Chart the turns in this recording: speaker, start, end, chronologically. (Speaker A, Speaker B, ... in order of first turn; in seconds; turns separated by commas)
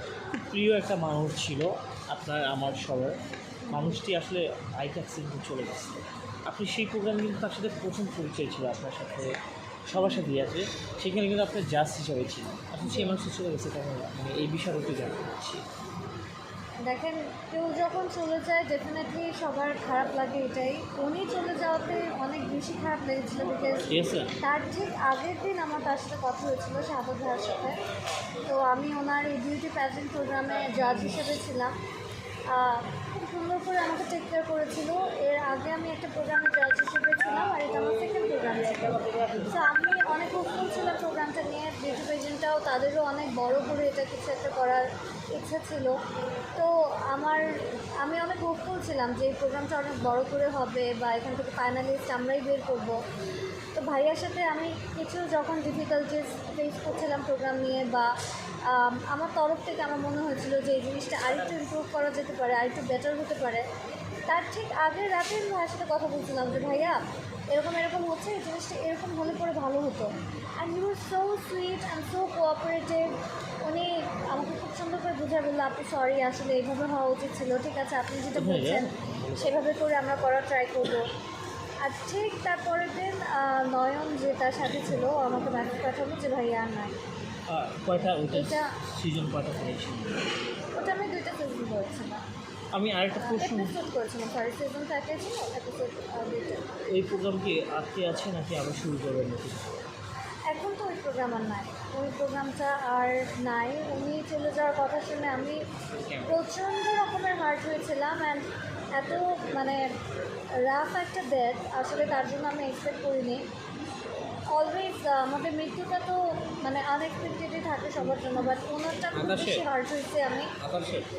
Speaker A: 0.3-3.2, Speaker B: 3.7-4.0, Speaker A: 3.7-9.4, Speaker A: 9.9-15.6, Speaker B: 12.8-13.2, Speaker B: 16.8-23.9, Speaker A: 23.9-24.3, Speaker B: 24.4-27.8, Speaker B: 28.4-31.7, Speaker B: 32.5-46.0, Speaker A: 39.0-39.5, Speaker B: 46.5-47.5, Speaker B: 48.0-53.0, Speaker B: 53.7-58.1, Speaker B: 58.7-63.6, Speaker B: 64.3-73.1, Speaker B: 73.6-81.1, Speaker A: 78.4-79.5, Speaker B: 81.8-87.0, Speaker A: 87.5-90.2, Speaker B: 88.3-88.7, Speaker B: 90.7-92.2, Speaker A: 92.7-93.8, Speaker B: 93.2-96.7, Speaker A: 96.9-99.8, Speaker B: 100.5-105.6, Speaker A: 106.0-106.4, Speaker B: 106.3-109.9, Speaker B: 110.6-113.4, Speaker B: 114.5-120.5, Speaker A: 119.1-119.7, Speaker A: 120.6-121.1